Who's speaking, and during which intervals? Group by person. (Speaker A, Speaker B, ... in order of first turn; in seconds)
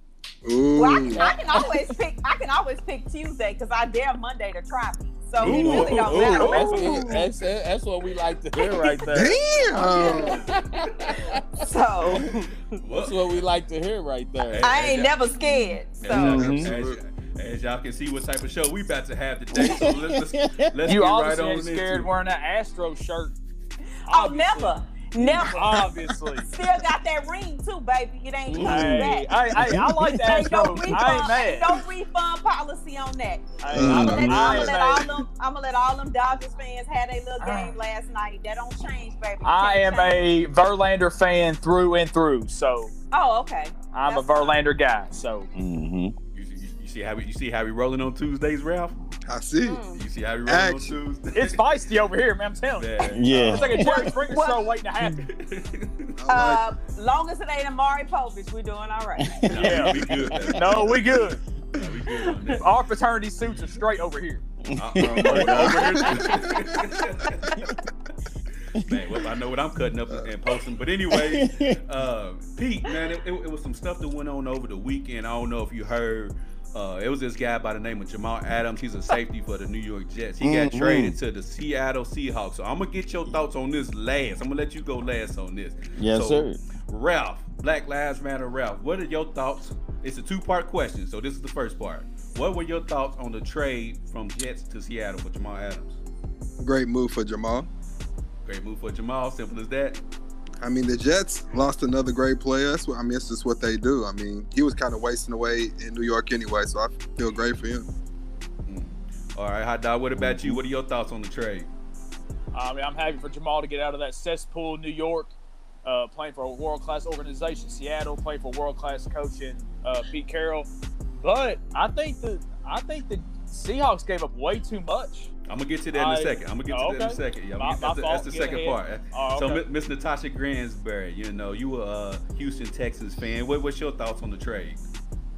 Speaker A: 0.4-1.2, 9.1-10.4, 16.3-17.0, 33.7-34.8, 49.2-49.8, 50.5-51.0, 56.2-56.6, 65.0-67.0, 96.6-97.7, 100.6-107.9
Speaker B: 0.7-7.2, 8.6-9.0, 9.9-10.4, 11.2-12.5, 14.6-16.4, 24.1-25.7, 26.5-29.4, 30.2-40.2, 43.1-44.6, 49.6-50.0, 53.7-54.7, 56.3-59.5, 62.1-62.6
Speaker C: 1.1-1.7, 5.4-12.3, 12.9-14.7, 16.1-16.7, 19.5-20.7, 28.5-31.2, 33.7-34.3, 45.5-46.1, 53.1-53.9, 59.2-60.9, 64.6-66.3, 71.1-71.8, 80.4-81.2, 86.0-86.6, 110.2-110.6
Speaker D: 5.4-7.2, 12.8-13.4, 14.4-15.2, 16.0-22.1, 46.3-49.0, 49.9-51.6, 52.8-53.9, 55.2-56.1, 59.5-62.7, 64.7-67.6, 68.7-96.0, 98.4-100.0, 108.7-111.7, 125.5-134.8
Speaker E: 6.4-6.9, 20.8-23.3, 24.1-26.5, 28.6-31.7, 33.6-35.1, 37.4-37.8, 39.4-42.9, 43.9-45.5, 51.3-55.3, 59.5-60.0, 60.5-61.4, 62.5-64.4, 112.5-125.3, 125.9-129.6